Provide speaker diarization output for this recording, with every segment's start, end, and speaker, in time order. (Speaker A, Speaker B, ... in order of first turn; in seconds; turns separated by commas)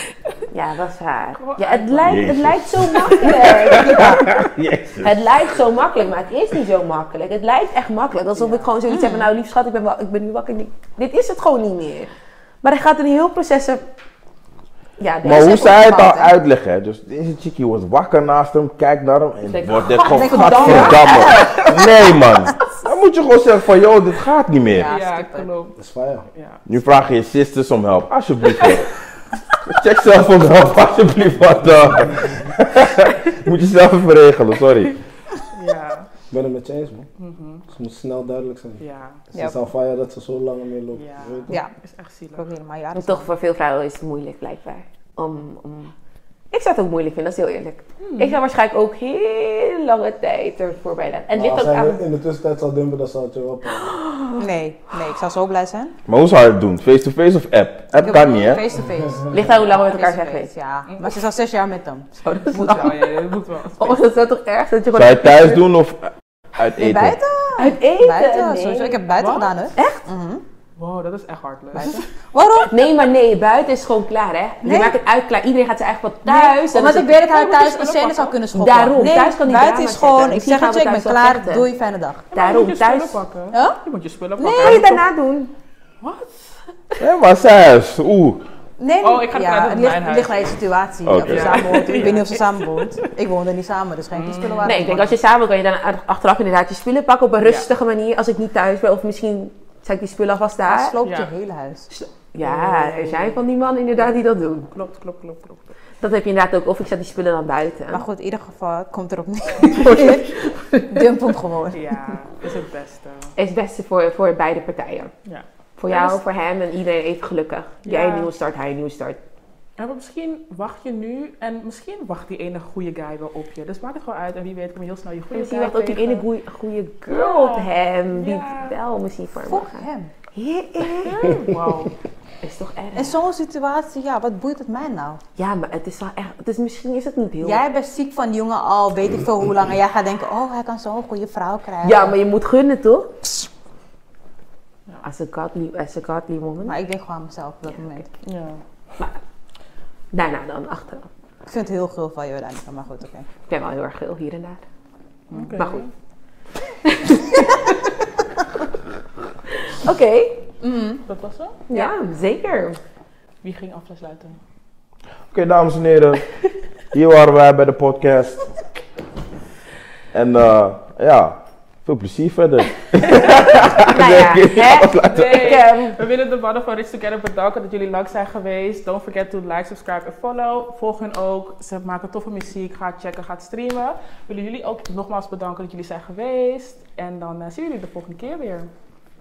Speaker A: 0.5-4.3, Speaker B: 1.4-2.2, Speaker C: 2.0-5.2, Speaker D: 3.7-4.3, Speaker A: 5.0-12.1, Speaker B: 8.4-8.7, Speaker D: 8.9-9.3, Speaker A: 12.6-13.8, Speaker A: 15.0-16.3, Speaker C: 15.2-24.9, Speaker D: 15.8-16.1, Speaker A: 19.5-21.7, Speaker D: 20.0-22.7, Speaker D: 24.7-25.5, Speaker B: 24.9-25.8, Speaker E: 25.8-26.2, Speaker B: 26.3-26.6, Speaker C: 26.6-28.9, Speaker C: 29.6-35.0, Speaker B: 35.5-36.1, Speaker E: 36.3-37.0, Speaker B: 37.2-37.6, Speaker E: 37.7-41.5, Speaker B: 38.8-39.2, Speaker B: 40.9-42.5, Speaker D: 42.4-43.3, Speaker A: 43.0-45.9, Speaker A: 46.5-52.0, Speaker B: 48.0-48.4, Speaker E: 51.3-54.0, Speaker A: 53.9-54.4, Speaker D: 54.4-55.9, Speaker C: 56.1-58.6, Speaker D: 57.9-62.8, Speaker A: 59.3-60.5, Speaker B: 60.9-61.1, Speaker A: 62.2-63.1, Speaker B: 62.5-64.1, Speaker A: 63.8-65.6, Speaker C: 64.9-67.2, Speaker D: 66.8-70.4, Speaker A: 67.6-69.0, Speaker B: 69.1-69.5, Speaker A: 69.8-70.0, Speaker B: 70.8-72.1, Speaker D: 71.7-72.8, Speaker A: 72.7-77.2, Speaker D: 74.6-75.0, Speaker D: 76.2-82.3, Speaker B: 77.1-78.4, Speaker A: 78.5-81.7, Speaker B: 82.3-85.0, Speaker A: 82.3-83.2, Speaker D: 83.5-83.8, Speaker D: 84.4-84.8, Speaker A: 84.5-85.5, Speaker B: 86.0-87.0, Speaker C: 87.0-88.5, Speaker D: 88.8-95.1, Speaker B: 89.0-90.6, Speaker C: 91.0-92.0, Speaker B: 91.2-92.9, Speaker B: 94.1-95.1, Speaker A: 94.6-101.0, Speaker B: 97.4-97.7, Speaker D: 100.7-101.9, Speaker B: 101.0-101.3, Speaker A: 101.9-104.7, Speaker B: 102.4-103.4, Speaker B: 104.7-105.7, Speaker A: 106.0-108.0, Speaker D: 107.9-111.8, Speaker A: 109.7-110.5, Speaker B: 111.7-113.3, Speaker A: 113.4-115.1, Speaker B: 115.2-116.2, Speaker A: 115.8-119.2, Speaker B: 117.8-118.3, Speaker B: 119.8-126.2, Speaker A: 125.3-131.5, Speaker B: 127.1-128.7, Speaker D: 129.5-130.1, Speaker B: 131.0-131.9, Speaker A: 132.4-133.2, Speaker D: 132.9-135.2, Speaker A: 135.4-137.6, Speaker D: 137.4-142.2, Speaker A: 141.8-143.1, Speaker A: 145.0-146.8, Speaker D: 146.7-148.1, Speaker B: 148.2-148.6, Speaker A: 150.1-151.1, Speaker D: 151.5-153.3, Speaker A: 153.5-154.6, Speaker D: 155.3-155.6, Speaker B: 155.3-155.9, Speaker A: 155.6-155.8, Speaker A: 156.8-157.6, Speaker A: 159.6-160.4, Speaker D: 160.6-161.0, Speaker B: 161.0-161.9, Speaker A: 161.7-162.8, Speaker B: 163.4-164.4, Speaker C: 165.3-166.2, Speaker C: 166.9-168.5, Speaker C: 170.1-175.6, Speaker A: 173.8-176.0, Speaker B: 175.1-188.7